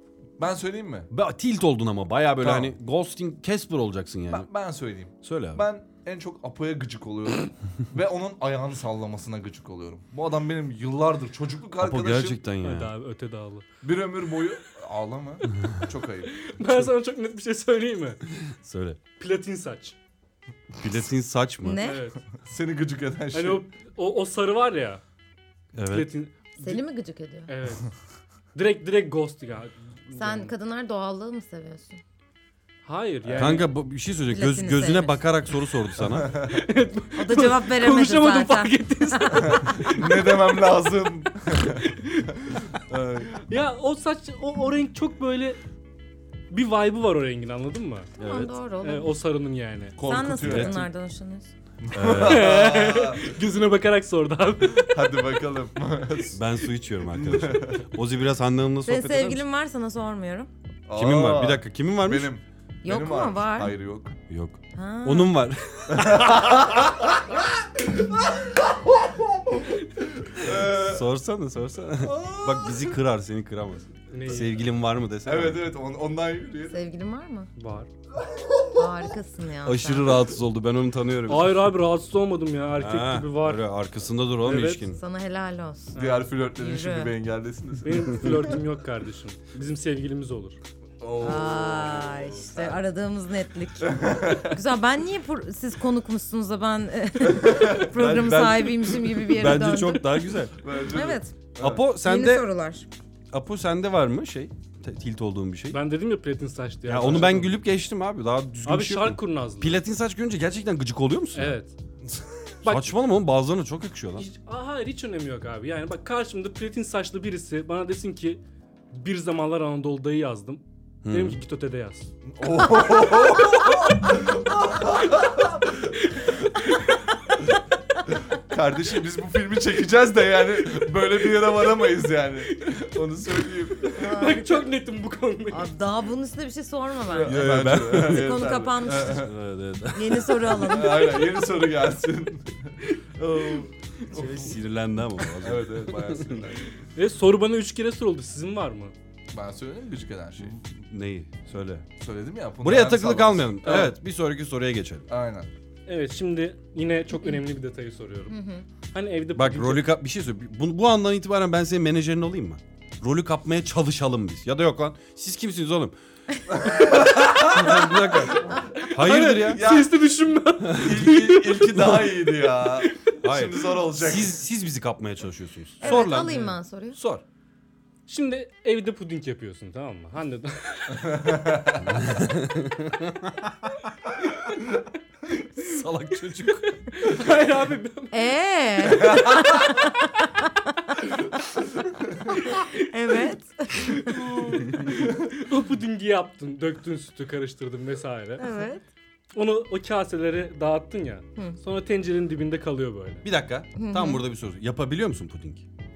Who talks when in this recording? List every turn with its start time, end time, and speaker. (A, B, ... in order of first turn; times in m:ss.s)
0:00.4-0:01.1 A
0:01.1-0:04.5 B
0:02.4-0:02.7 A
0:04.3-0:12.4 A
0:05.2-0:05.6 B
0:11.8-0:12.9 B
0:12.6-0:13.6 C
0:13.8-0:16.4 A
0:16.3-0:18.2 C
0:18.4-0:19.0 B
0:19.2-0:20.0 C
0:20.8-0:21.8 B
0:21.6-0:22.1 D
0:21.8-0:22.2 C
0:22.4-0:23.6 A
0:23.3-0:25.0 C
0:25.8-0:26.1 B
0:25.9-0:26.8 C
0:26.6-0:27.5 D
0:27.5-0:27.9 C
0:28.5-0:30.5 C
0:30.2-0:32.0 D
0:32.8-0:33.7 C
0:33.2-0:33.6 A
0:33.4-0:36.3 B
0:34.3-0:35.2 D
0:36.2-0:36.5 A
0:36.4-0:40.4 C
0:37.2-0:40.0 D
0:39.5-0:41.9 A
0:41.5-0:42.3 C
0:42.9-0:43.4 A
0:43.4-0:45.6 C
0:46.5-0:48.1 C
0:48.2-0:48.5 B
0:48.2-0:49.1 D
0:48.8-0:50.0 C
0:50.0-0:50.9 A
0:50.0-0:51.5 D
0:50.4-0:50.8 B
0:51.8-0:53.3 A
0:51.9-0:52.6 B
0:52.1-0:55.2 C
0:54.7-0:56.4 A
0:56.3-0:59.4 B
0:57.1-0:57.9 A
0:58.8-1:00.5 D
1:00.9-1:04.2 A
1:01.0-1:02.3 B
1:02.8-1:03.7 D
1:04.3-1:06.8 B
1:04.7-1:05.3 D
1:05.9-1:11.0 A
1:10.4-1:15.7 B
1:12.0-1:13.0 A
1:14.1-1:14.6 C
1:15.3-1:16.8 A
1:16.7-1:17.5 D
1:17.6-1:17.9 C
1:18.8-1:20.2 D
1:19.6-1:21.7 B
1:21.3-1:23.6 C
1:22.8-1:25.0 B
1:24.4-1:24.8 C
1:24.9-1:27.1 D
1:25.9-1:26.3 C
1:26.0-1:28.5 A
1:27.8-1:30.6 C
1:31.0-1:32.8 A
1:31.2-1:41.3 D
1:33.8-1:34.6 A
1:37.2-1:38.9 A
1:39.3-1:40.6 B
1:40.6-1:41.8 A
1:41.6-1:42.5 B
1:42.0-1:42.9 D
1:43.3-1:45.8 B
1:45.7-1:47.5 C
1:46.9-1:51.6 B
1:48.6-1:49.8 C
1:51.4-1:51.7 C
1:52.0-1:52.4 A
1:52.6-1:52.9 C
1:52.6-1:54.3 B
1:54.2-1:58.4 C
1:58.9-2:02.1 C
2:01.0-2:01.4 B
2:02.3-2:06.4 A
2:08.1-2:14.1 A
2:13.9-2:15.7 C
2:13.9-2:14.7 D
2:15.5-2:19.3 D
2:17.1-2:19.3 A
2:17.2-2:20.7 B
2:19.9-2:21.3 D
2:20.6-2:24.6 A
2:24.1-2:26.4 B
2:25.4-2:26.8 A
2:27.0-2:28.9 C
2:29.3-2:30.6 A
2:30.4-2:31.9 B
2:32.0-2:33.9 A
2:32.6-2:35.1 B
2:33.6-2:33.9 C
2:35.1-2:35.5 A
2:35.9-2:38.4 C
2:38.3-2:38.6 D
2:38.9-2:39.9 C
2:39.4-2:45.9 B
2:46.5-2:48.4 A
2:47.4-2:49.7 B
2:48.8-2:53.0 C
2:49.0-2:49.9 A
2:50.7-2:54.4 A
2:53.2-2:56.4 B
2:55.8-2:57.0 D
2:55.9-2:56.5 C
2:57.0-2:57.2 A
2:58.1-3:01.2 C
3:00.9-3:02.0 A
3:01.9-3:03.7 B
3:05.6-3:06.6 B
3:06.9-3:08.3 C
3:08.1-3:11.0 D
3:08.9-3:09.6 A
3:12.3-3:14.3 D
3:13.8-3:18.4 C
3:14.8-3:15.1 A
3:18.4-3:18.8 D
3:19.3-3:23.2 C
3:23.2-3:25.6 B
3:23.8-3:24.2 D